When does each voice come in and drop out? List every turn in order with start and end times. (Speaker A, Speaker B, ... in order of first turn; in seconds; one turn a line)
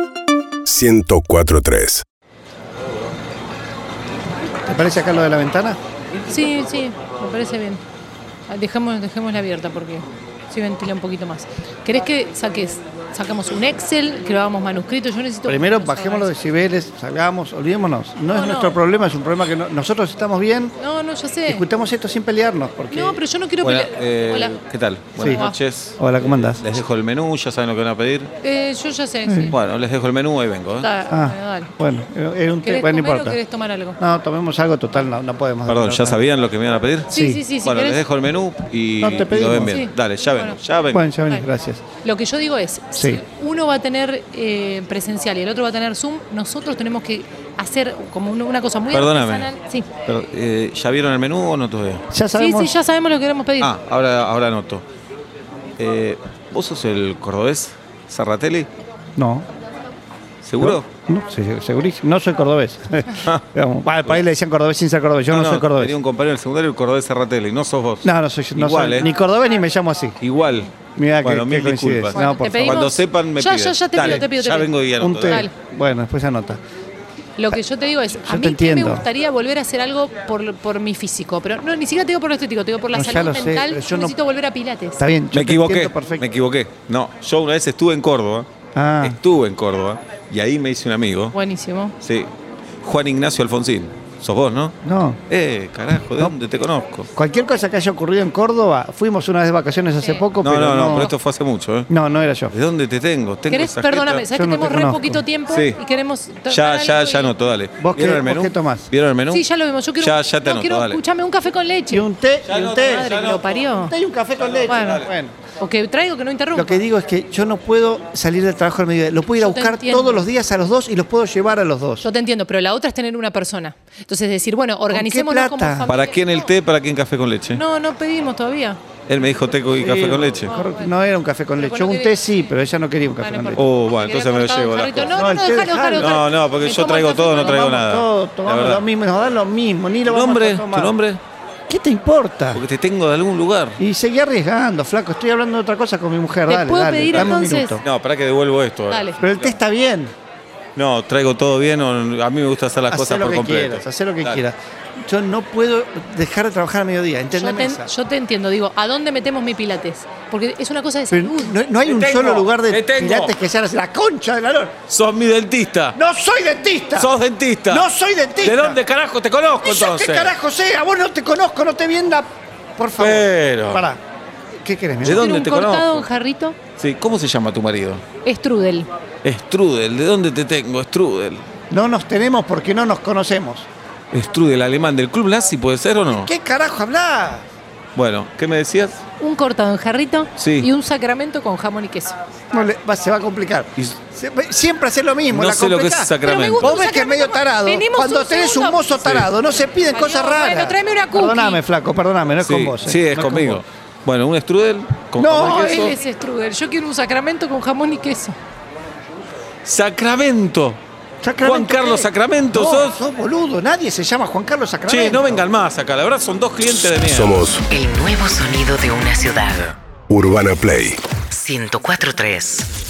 Speaker A: 0.7-2.0
Speaker B: 4.7-5.8
Speaker C: 6.3-7.8
Speaker C: 8.5-16.3
Speaker B: 15.5-20.8
Speaker C: 18.3-18.8
Speaker C: 20.8-21.7
Speaker B: 21.5-23.2
Speaker C: 22.9-24.6
Speaker D: 23.6-28.3
Speaker C: 25.2-25.6
Speaker B: 25.2-25.4
Speaker B: 26.0-26.6
Speaker C: 28.4-29.6
Speaker B: 29.3-29.6
Speaker D: 29.5-30.9
Speaker C: 30.8-31.7
Speaker B: 31.1-33.4
Speaker C: 32.6-34.0
Speaker B: 34.0-36.2
Speaker D: 35.7-41.0
Speaker C: 37.1-38.0
Speaker B: 37.1-37.4
Speaker B: 39.0-39.8
Speaker C: 39.6-40.6
Speaker B: 40.9-41.8
Speaker C: 42.0-49.9
Speaker B: 43.0-43.2
Speaker D: 48.9-49.5
Speaker D: 50.1-52.0
Speaker B: 52.1-52.8
Speaker C: 52.4-53.7
Speaker D: 53.6-54.9
Speaker D: 55.8-58.7
Speaker B: 59.2-59.5
Speaker D: 60.4-60.9
Speaker B: 60.6-66.0
Speaker D: 65.3-69.1
Speaker B: 68.0-70.2
Speaker D: 70.2-75.5
Speaker B: 71.0-72.9
Speaker C: 72.1-75.5
Speaker B: 74.0-74.3
Speaker B: 75.0-76.6
Speaker C: 77.4-85.0
Speaker B: 78.2-79.1
Speaker B: 82.9-84.2
Speaker B: 85.0-86.3
Speaker D: 85.3-88.5
Speaker B: 88.8-89.2
Speaker D: 89.0-91.3
Speaker C: 91.3-92.0
Speaker D: 92.0-92.3
Speaker D: 92.8-94.8
Speaker B: 94.8-95.2
Speaker D: 95.3-97.1
Speaker B: 97.2-101.1
Speaker D: 100.4-101.9
Speaker B: 101.9-102.5
Speaker D: 102.5-104.3
Speaker C: 103.5-107.3
Speaker B: 104.3-105.2
Speaker D: 105.5-105.8
Speaker D: 106.5-109.5
Speaker B: 107.8-108.9
Speaker C: 109.3-112.1
Speaker D: 110.0-111.0
Speaker B: 111.9-113.2
Speaker D: 112.5-113.6
Speaker C: 112.7-114.0
Speaker B: 113.8-115.3
Speaker D: 114.6-115.1
Speaker C: 114.7-116.8
Speaker B: 116.5-122.1
Speaker C: 119.4-120.2
Speaker C: 122.0-126.5
Speaker B: 124.9-125.9
Speaker D: 125.9-127.6
Speaker C: 127.5-128.8
Speaker D: 129.1-130.5
Speaker B: 129.8-133.6
Speaker C: 130.4-130.9
Speaker C: 131.6-132.5
Speaker C: 133.2-137.7
Speaker D: 133.6-135.3
Speaker B: 135.1-136.2
Speaker D: 135.9-138.8
Speaker B: 137.4-140.9
Speaker D: 140.1-141.2
Speaker B: 141.7-142.6
Speaker D: 142.5-143.8
Speaker B: 143.8-147.8
Speaker C: 146.5-147.8
Speaker D: 147.1-149.6
Speaker C: 148.9-149.2
Speaker B: 149.2-150.1
Speaker D: 150.8-154.4
Speaker B: 152.9-157.9
Speaker C: 157.3-161.6
Speaker B: 161.1-164.8
Speaker D: 161.8-163.3
Speaker D: 164.9-166.0
Speaker B: 165.9-167.1
Speaker D: 166.9-167.9
Speaker B: 167.7-168.8
Speaker D: 168.4-170.4
Speaker B: 169.6-174.0
Speaker D: 173.0-173.9
Speaker B: 174.6-175.3
Speaker D: 175.0-176.1
Speaker C: 175.1-176.6
Speaker D: 176.8-178.0
Speaker C: 178.2-178.9
Speaker D: 179.2-181.4
Speaker B: 181.7-183.7
Speaker D: 184.1-186.3
Speaker B: 186.1-187.4
Speaker D: 187.9-189.0
Speaker C: 189.2-192.2
Speaker D: 190.4-190.7
Speaker B: 192.5-203.6
Speaker D: 195.3-196.8
Speaker C: 196.2-199.2
Speaker D: 199.0-199.3
Speaker C: 199.9-201.6
Speaker D: 202.4-206.0
Speaker B: 205.2-205.9
Speaker C: 205.4-208.4
Speaker D: 209.7-210.8
Speaker B: 211.2-215.4
Speaker D: 211.4-212.9
Speaker D: 214.9-217.5
Speaker A: 217.0-217.7
Speaker E: 217.7-219.8
Speaker A: 220.1-221.0
Speaker E: 221.3-222.7